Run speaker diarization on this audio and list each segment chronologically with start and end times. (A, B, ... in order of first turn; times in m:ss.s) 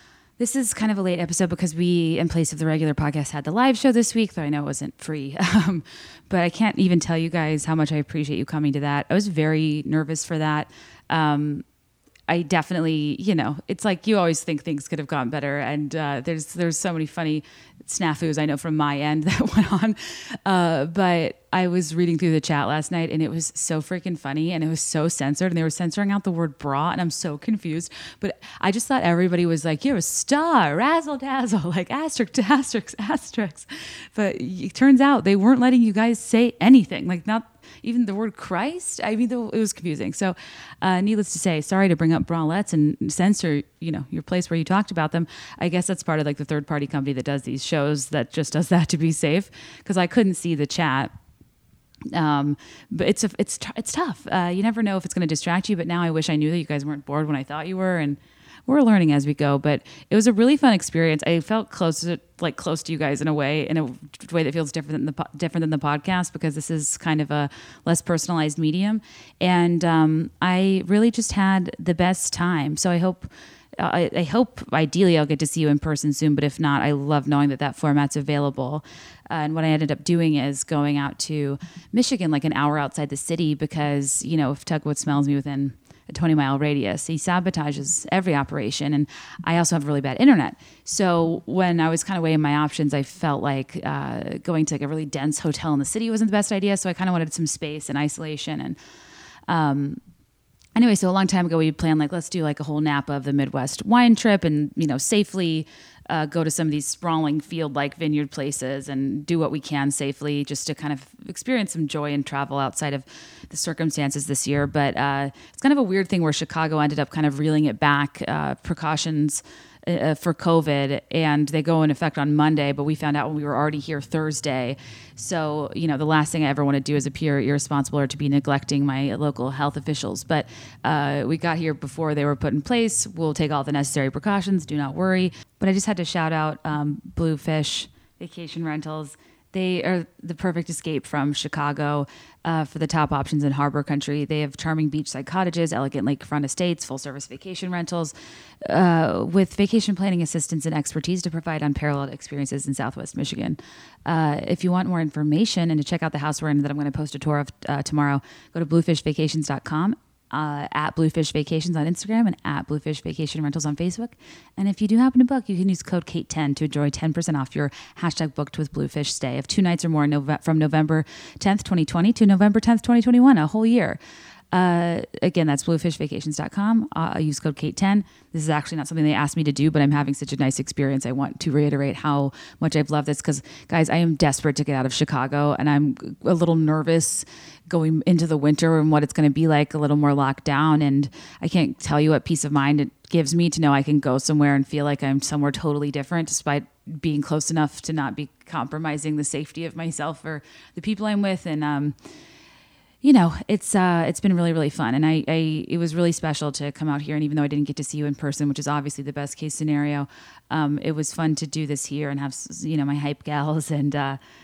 0:00.4-0:11.6 A
0:12.3-0:51.1 A
0:52.1-1:38.8 A
1:39.5-1:40.0 A
1:40.8-2:54.0 A
2:54.5-3:22.0 A
3:23.0-3:34.2 A